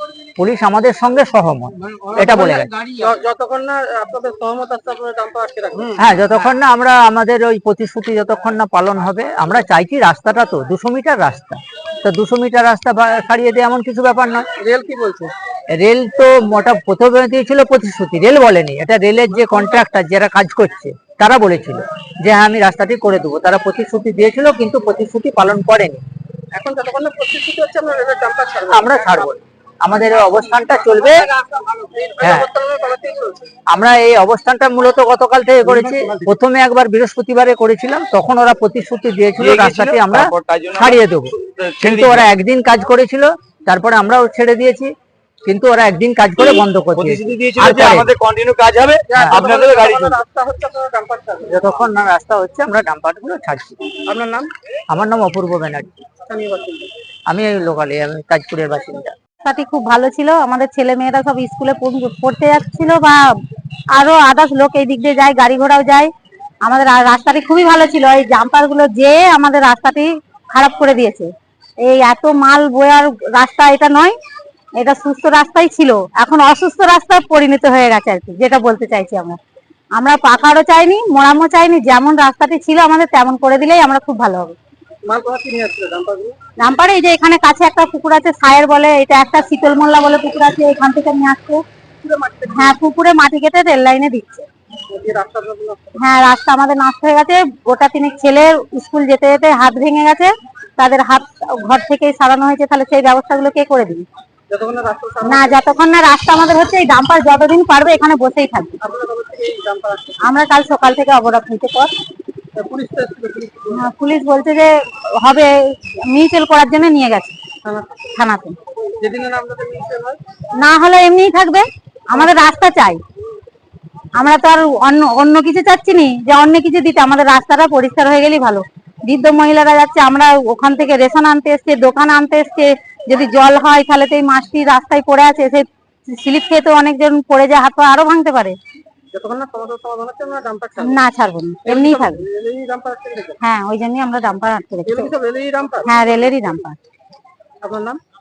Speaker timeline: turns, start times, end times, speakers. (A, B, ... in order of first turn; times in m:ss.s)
0:00.4-0:02.7 A
0:03.0-0:06.0 B
0:06.0-0:14.4 A
0:14.6-0:15.3 B
0:15.7-0:26.0 A
0:26.5-0:29.3 B
0:28.7-0:31.2 A
0:30.2-0:33.5 B
0:32.2-0:32.5 A
0:33.7-0:44.9 A
0:39.4-0:40.9 C
0:41.6-0:42.1 C
0:45.4-0:48.1 A
0:47.4-0:50.0 C
0:49.1-0:51.6 B
0:51.4-0:53.8 A
0:54.1-0:54.5 B
0:54.9-0:56.0 A
0:56.2-0:56.9 B
0:57.3-0:59.1 A
0:59.4-1:03.2 D
1:04.0-1:06.1 D
1:06.6-1:11.3 D
1:11.8-1:14.1 D
1:14.8-1:19.4 D
1:20.0-1:24.5 D
1:25.0-1:26.4 B
1:26.6-1:31.6 D
1:32.0-1:32.8 B
1:32.5-1:34.4 D
1:34.9-1:36.1 B
1:36.0-1:44.0 D
1:44.5-1:45.6 B
1:45.2-1:48.8 D
1:48.8-1:50.4 B
1:50.2-1:51.9 D
1:52.5-1:53.8 B
1:53.7-1:54.7 D
1:55.2-1:57.4 D
1:57.6-1:58.0 B
1:58.1-1:58.6 D
1:59.0-2:00.2 B
2:00.6-2:03.0 D
2:04.2-2:18.6 D
2:19.1-2:21.0 B
2:20.8-2:22.2 D
2:21.6-2:23.4 B
2:23.4-2:25.1 D
2:24.8-2:26.4 B
2:25.8-2:26.8 D
2:27.6-2:28.0 B